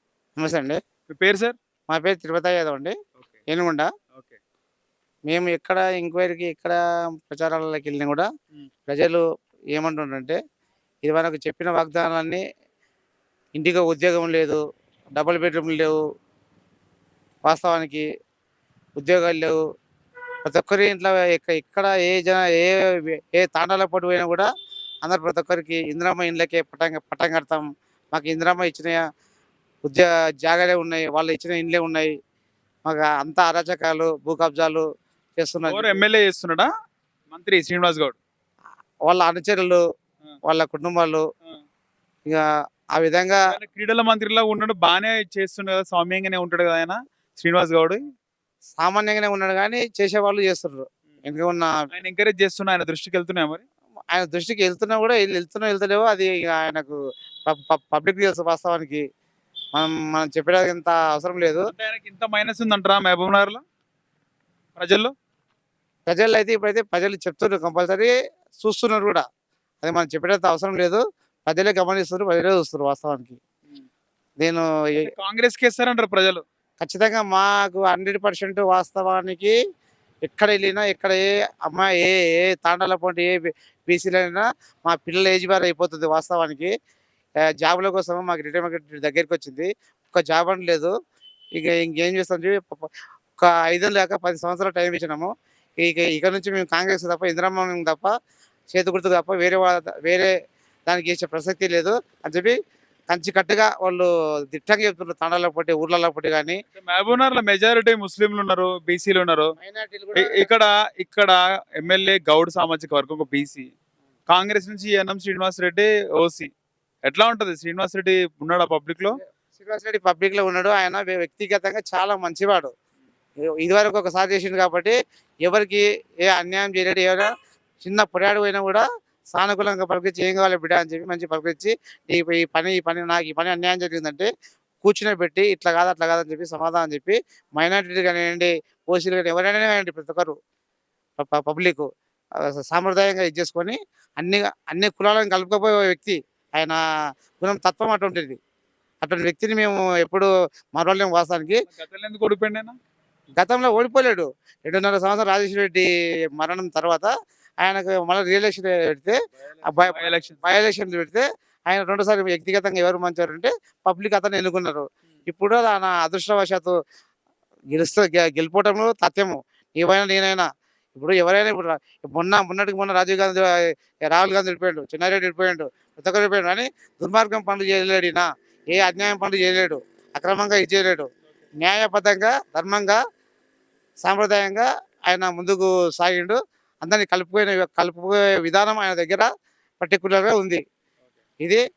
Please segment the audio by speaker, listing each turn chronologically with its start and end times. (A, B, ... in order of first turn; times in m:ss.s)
0:00.4-0:00.8 A
0:01.1-0:01.6 B
0:01.9-0:02.9 A
0:03.5-0:03.9 A
0:04.1-0:04.4 B
0:05.3-0:08.3 A
0:08.9-0:09.2 A
0:09.7-0:10.4 A
0:11.0-0:12.4 A
0:13.6-0:14.6 A
0:15.2-0:15.9 A
0:17.4-0:18.0 A
0:19.0-0:19.6 A
0:20.4-0:24.5 A
0:25.0-0:29.0 A
0:29.8-0:32.1 A
0:32.8-0:34.8 A
0:35.4-0:36.0 A
0:35.7-0:36.7 B
0:37.3-0:38.2 B
0:39.0-0:39.8 A
0:40.4-0:41.2 A
0:42.3-0:43.4 A
0:43.5-0:48.0 B
0:48.8-0:51.7 A
0:51.9-0:53.6 B
0:54.1-0:59.0 A
0:59.7-1:01.7 A
1:01.7-1:03.6 B
1:04.8-1:05.1 B
1:06.1-1:09.2 A
1:09.8-1:13.4 A
1:14.4-1:15.1 A
1:15.0-1:16.4 B
1:16.8-1:19.5 A
1:20.3-1:26.7 A
1:27.5-1:30.9 A
1:31.5-1:38.1 A
1:38.7-1:40.3 A
1:40.9-1:42.5 A
1:43.1-1:46.6 A
1:46.8-1:49.5 B
1:49.6-1:50.5 A
1:50.2-1:53.7 B
1:54.3-1:56.5 B
1:57.0-1:59.2 B
1:59.5-2:02.7 A
2:03.5-2:14.3 A
2:14.8-2:20.4 A
2:21.2-2:21.8 A
2:22.5-2:26.8 A
2:27.4-2:28.4 A
2:29.0-2:31.7 A
2:31.7-2:32.7 B
2:33.4-2:46.7 A
2:39.6-2:40.4 B
2:47.7-3:03.0 A
3:04.0-3:09.3 A
3:09.8-3:10.6 A